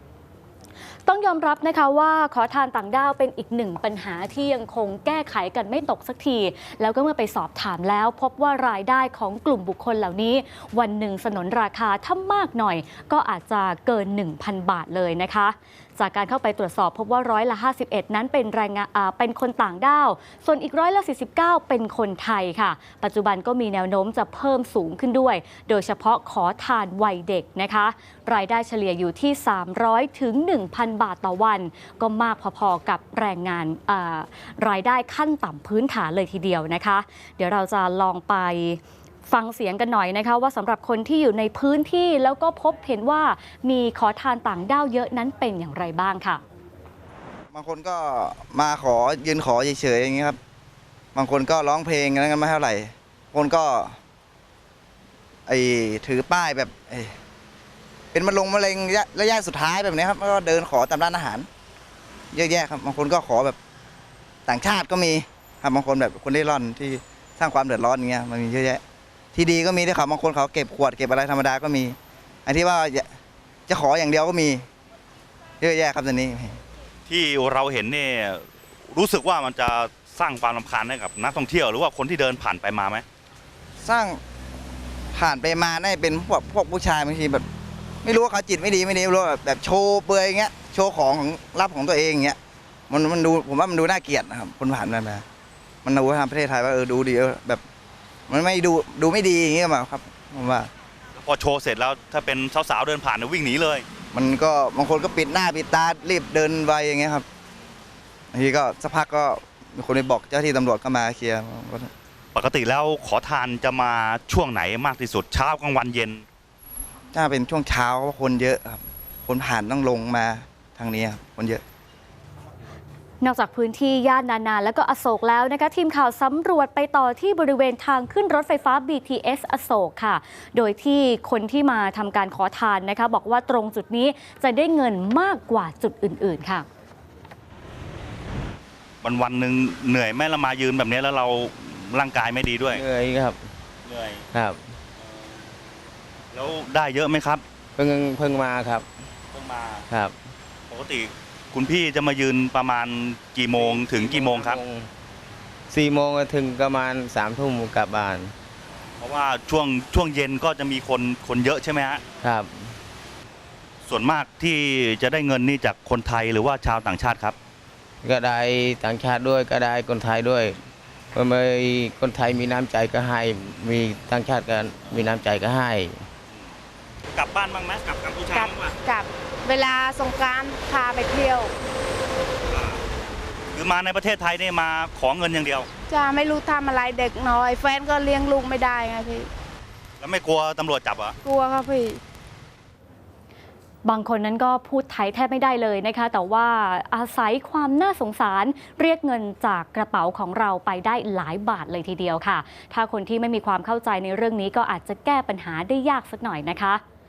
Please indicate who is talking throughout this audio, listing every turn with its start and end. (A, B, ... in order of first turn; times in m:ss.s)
0:01.1-0:46.4 A
0:47.5-0:50.4 B
0:51.2-0:53.9 B
0:55.5-0:57.1 B
0:58.1-1:01.5 B
1:02.3-1:03.6 B
1:04.5-1:08.8 B
1:09.3-1:13.1 B
1:13.7-1:14.6 B
1:15.6-1:16.6 B
1:17.1-1:23.0 C
1:23.8-1:24.2 B
1:25.1-1:27.4 B
1:28.0-1:32.4 B
1:32.9-1:35.2 B
1:35.8-1:37.6 B
1:38.3-1:40.7 B
1:41.2-1:43.8 C
1:44.1-1:47.3 B
1:48.3-1:51.9 B
1:52.4-1:56.2 C
1:57.1-2:01.6 B
2:03.2-2:16.7 A
2:19.0-2:22.8 C
2:22.7-2:23.4 D
2:23.9-2:24.2 C
2:24.3-2:24.6 D
2:25.0-2:25.3 C
2:26.3-2:27.4 C
2:27.8-2:28.9 D
2:29.3-2:29.8 C
2:29.9-2:30.2 D
2:30.7-2:34.6 C
2:33.5-2:34.9 D
2:35.7-2:38.3 D
2:39.0-2:42.0 C
2:42.2-2:42.8 D
2:43.9-2:47.4 C
2:48.0-2:50.6 D
2:51.1-2:56.1 D
2:57.2-2:58.8 C
2:58.4-3:01.5 E
3:02.5-3:02.8 C
3:03.5-3:05.7 C
3:05.9-3:09.3 E
3:10.0-3:11.2 C
3:11.2-3:12.0 E
3:13.8-3:26.8 A